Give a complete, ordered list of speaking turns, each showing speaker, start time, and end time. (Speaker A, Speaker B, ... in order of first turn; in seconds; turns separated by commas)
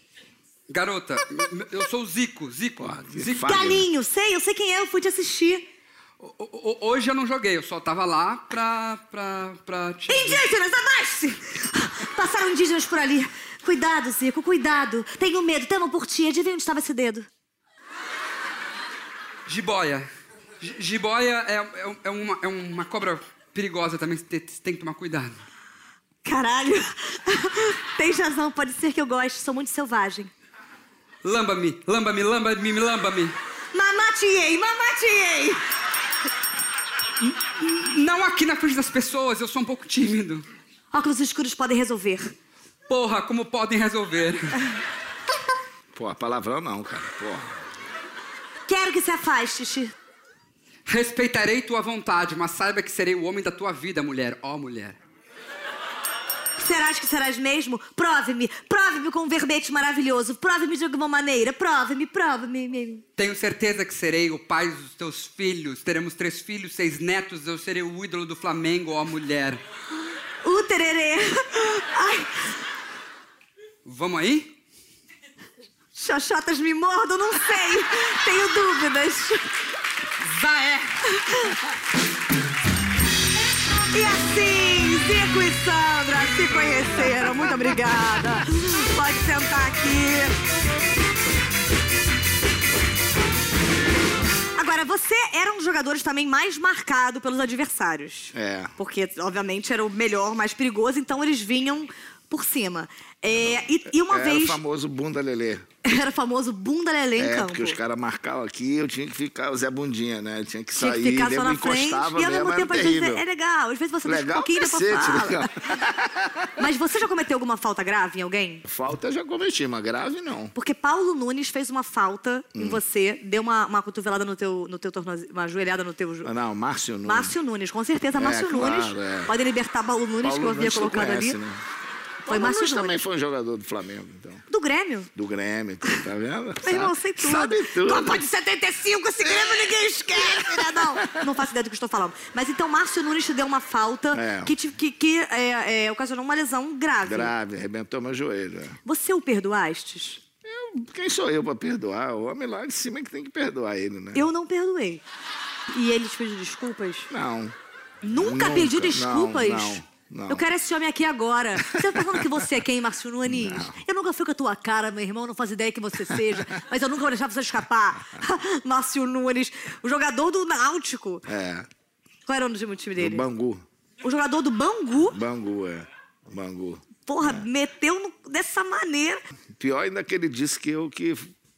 Speaker A: 0.7-3.7, Speaker B: 2.8-3.9, Speaker C: 3.4-5.7, Speaker A: 6.2-10.4, Speaker C: 10.1-17.3, Speaker A: 19.5-20.1, Speaker A: 20.6-25.4, Speaker C: 26.2-30.3, Speaker A: 31.2-33.3, Speaker C: 33.7-35.6, Speaker A: 37.2-40.4, Speaker C: 40.9-42.3, Speaker A: 42.9-44.6, Speaker B: 45.9-47.6, Speaker C: 48.7-49.9, Speaker A: 50.9-55.0, Speaker C: 56.6-63.0, Speaker A: 63.2-69.6, Speaker C: 70.4-72.5, Speaker A: 73.8-74.5, Speaker C: 76.0-79.4, Speaker A: 80.2-81.0, Speaker C: 81.1-81.5, Speaker C: 83.9-90.3, Speaker C: 94.5-104.6, Speaker B: 98.3-98.7, Speaker B: 103.9-105.7, Speaker C: 105.8-107.8, Speaker B: 107.2-113.2, Speaker C: 110.7-115.5, Speaker B: 114.0-116.5, Speaker C: 116.6-118.6, Speaker B: 118.6-120.5, Speaker C: 120.5-126.3, Speaker B: 122.5-122.8, Speaker B: 126.2-127.3, Speaker C: 127.0-131.4, Speaker B: 128.1-129.3, Speaker B: 130.2-131.6, Speaker B: 132.2-134.4, Speaker C: 132.3-133.0, Speaker C: 134.5-135.1, Speaker B: 135.1-138.2, Speaker C: 136.6-147.3, Speaker B: 140.2-141.2, Speaker B: 144.1-144.5, Speaker B: 147.0-148.8, Speaker C: 148.8-150.2, Speaker B: 150.4-154.3, Speaker C: 154.1-155.0, Speaker C: 155.7-157.1, Speaker B: 157.1-157.5, Speaker C: 158.0-171.2, Speaker B: 158.2-160.5, Speaker B: 161.6-162.3, Speaker B: 163.3-163.8, Speaker B: 171.2-171.7, Speaker C: 172.3-173.2, Speaker B: 173.0-173.6, Speaker C: 174.0-175.2, Speaker B: 175.1-177.4, Speaker C: 177.1-179.2, Speaker B: 179.6-181.3